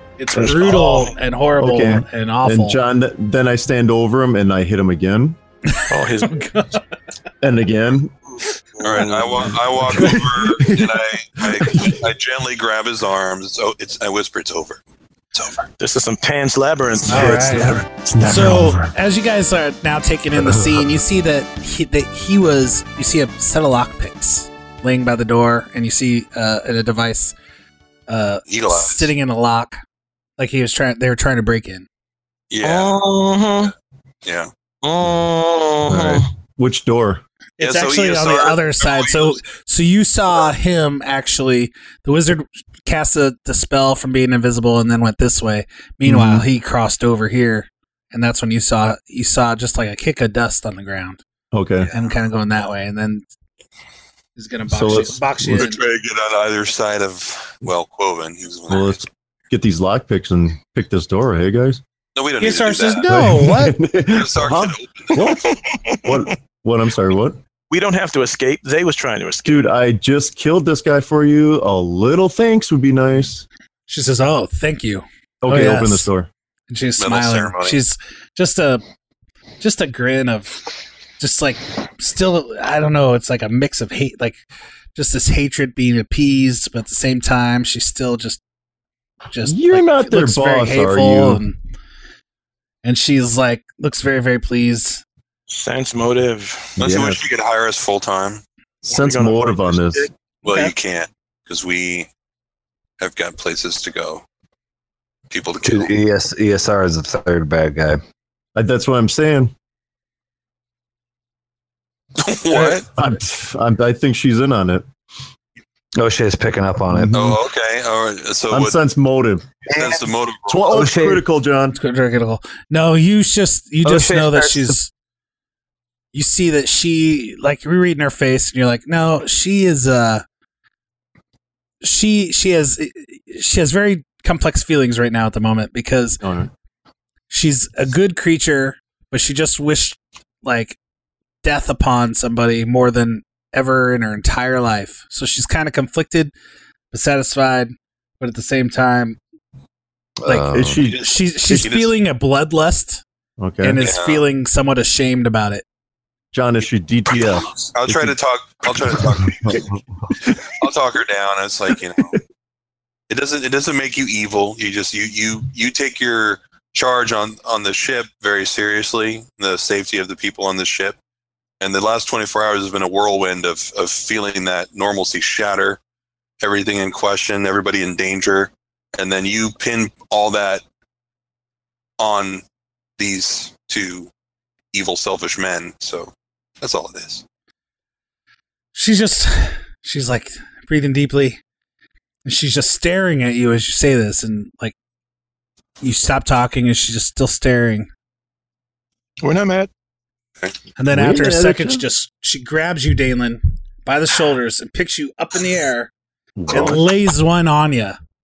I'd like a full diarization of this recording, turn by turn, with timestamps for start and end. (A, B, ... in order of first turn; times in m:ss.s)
0:00.2-0:02.8 A
0:00.3-0:01.1 B
0:01.6-0:05.4 C
0:05.7-0:06.8 A
0:05.9-0:06.4 B
0:07.4-0:08.1 C
0:08.7-0:09.6 B
0:08.8-0:14.8 D
0:09.8-0:12.1 C
0:15.3-0:15.6 D
0:15.8-0:17.7 B
0:17.0-0:18.9 C
0:17.1-0:27.3 A
0:28.1-0:29.8 A
0:28.5-0:29.1 D
0:30.4-0:31.9 A
0:32.5-0:33.0 D
0:32.6-0:33.7 B
0:34.2-0:34.5 D
0:34.8-0:36.2 B
0:35.9-0:36.2 E
0:35.9-0:37.2 C
0:37.6-0:51.2 A
0:37.6-0:39.4 D
0:46.0-0:46.5 C
0:51.5-0:51.9 C
0:51.8-0:52.1 D
0:51.9-0:53.2 A
0:54.4-0:55.8 A
0:54.7-0:55.7 C
0:55.4-0:59.0 D
0:58.7-1:01.8 C
1:02.2-1:03.0 D
1:02.4-1:03.8 A
1:03.1-1:05.5 C
1:04.0-1:05.3 D
1:05.1-1:06.3 B
1:06.0-1:07.4 C
1:07.7-1:09.6 B
1:09.4-1:13.4 C
1:13.9-1:16.1 A
1:15.4-1:16.3 C
1:16.7-1:18.8 A
1:17.0-1:17.8 D
1:19.6-1:20.6 A
1:21.2-1:24.4 A
1:24.9-1:28.4 A
1:29.3-1:31.6 A
1:29.4-1:31.4 C
1:32.8-1:35.0 A
1:35.5-1:36.7 B
1:36.8-1:38.4 D
1:36.8-1:37.2 C
1:38.8-1:40.1 C
1:38.9-1:40.1 B
1:40.4-1:42.1 D
1:40.4-1:40.7 A
1:43.0-1:44.2 D
1:45.3-1:45.9 D
1:45.6-1:48.0 E
1:48.6-1:49.5 C
1:52.2-1:52.9 D
1:52.6-1:54.8 C
1:56.0-1:57.2 E
1:56.9-1:57.4 C
1:57.1-1:58.8 D
1:58.5-1:59.5 C
1:59.7-2:00.0 E
1:59.7-2:00.7 D
2:00.5-2:01.8 C
2:00.7-2:01.2 E
2:01.7-2:04.9 A
2:03.8-2:04.8 E
2:06.1-2:10.2 A
2:11.8-2:16.2 A
2:16.2-2:16.5 C
2:17.3-2:20.8 A
2:21.4-2:26.3 A
2:26.9-2:29.2 A
2:30.2-2:30.8 E
2:30.2-2:33.0 A
2:30.5-2:31.7 C
2:30.8-2:31.9 D
2:33.4-2:33.8 C
2:33.6-2:35.6 A
2:33.8-2:34.2 D
2:36.3-2:38.2 C
2:37.6-2:39.7 D
2:38.7-2:39.0 C
2:40.5-2:42.2 D
2:43.1-2:51.0 D
2:51.6-2:55.8 D
2:56.4-3:00.6 D
3:02.0-3:02.4 D
3:03.0-3:04.1 D
3:04.7-3:07.2 D
3:08.7-3:11.4 A
3:12.2-3:14.7 A
3:15.8-3:17.9 A
3:19.2-3:19.7 B
3:20.8-3:25.9 A
3:20.9-3:21.8 C
3:26.4-3:26.8 C
3:26.5-3:28.0 A